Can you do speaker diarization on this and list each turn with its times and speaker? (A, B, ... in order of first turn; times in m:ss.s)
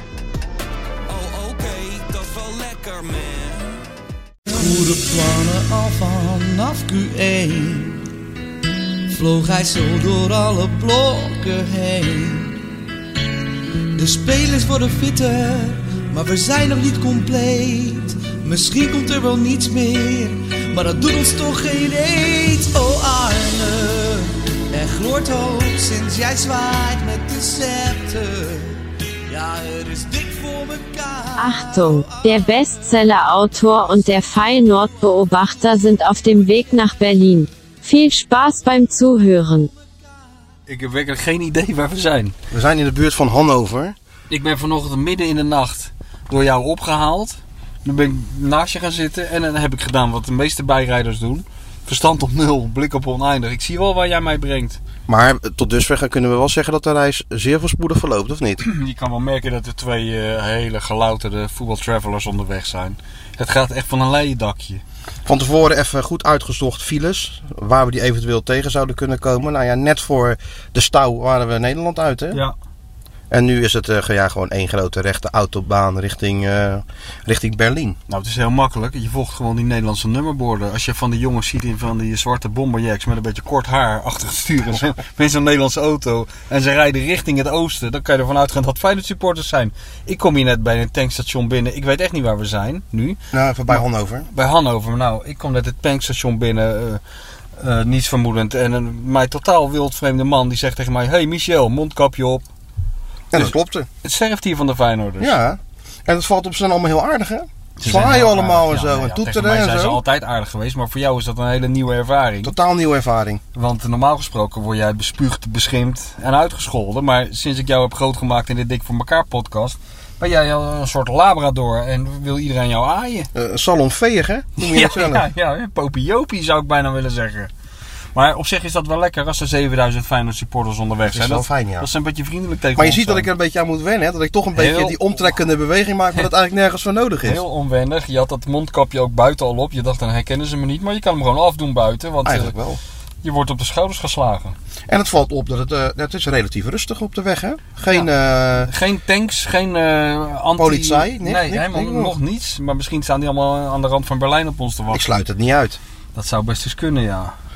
0:01.1-0:03.9 A
0:04.5-0:08.1 B
0:09.1-0:12.6 B
0:14.0-0:32.2 B
0:31.4-0:39.7 C
0:40.7-0:42.4 D
0:42.5-0:44.0 E
0:44.3-0:54.8 D
0:55.1-0:58.6 E
0:58.6-1:04.8 D
1:05.3-1:12.4 E
1:13.3-1:18.0 E
1:18.1-1:37.0 D
1:33.3-1:34.3 E
1:37.6-1:42.5 D
1:43.3-1:43.9 E
1:43.3-1:45.4 D
1:45.2-1:50.0 E
1:47.8-1:52.6 D
1:52.4-1:53.4 E
1:53.6-2:03.3 D
2:03.3-2:05.3 E
2:04.6-2:07.5 D
2:08.1-2:13.3 D
2:11.1-2:11.9 E
2:12.8-2:17.4 E
2:14.5-2:15.1 D
2:17.2-2:22.6 D
2:22.2-2:22.8 E
2:23.2-2:24.6 D
2:24.9-2:28.7 E
2:28.6-2:35.1 D
2:30.6-2:32.2 E
2:34.9-2:35.8 E
2:36.2-2:37.3 D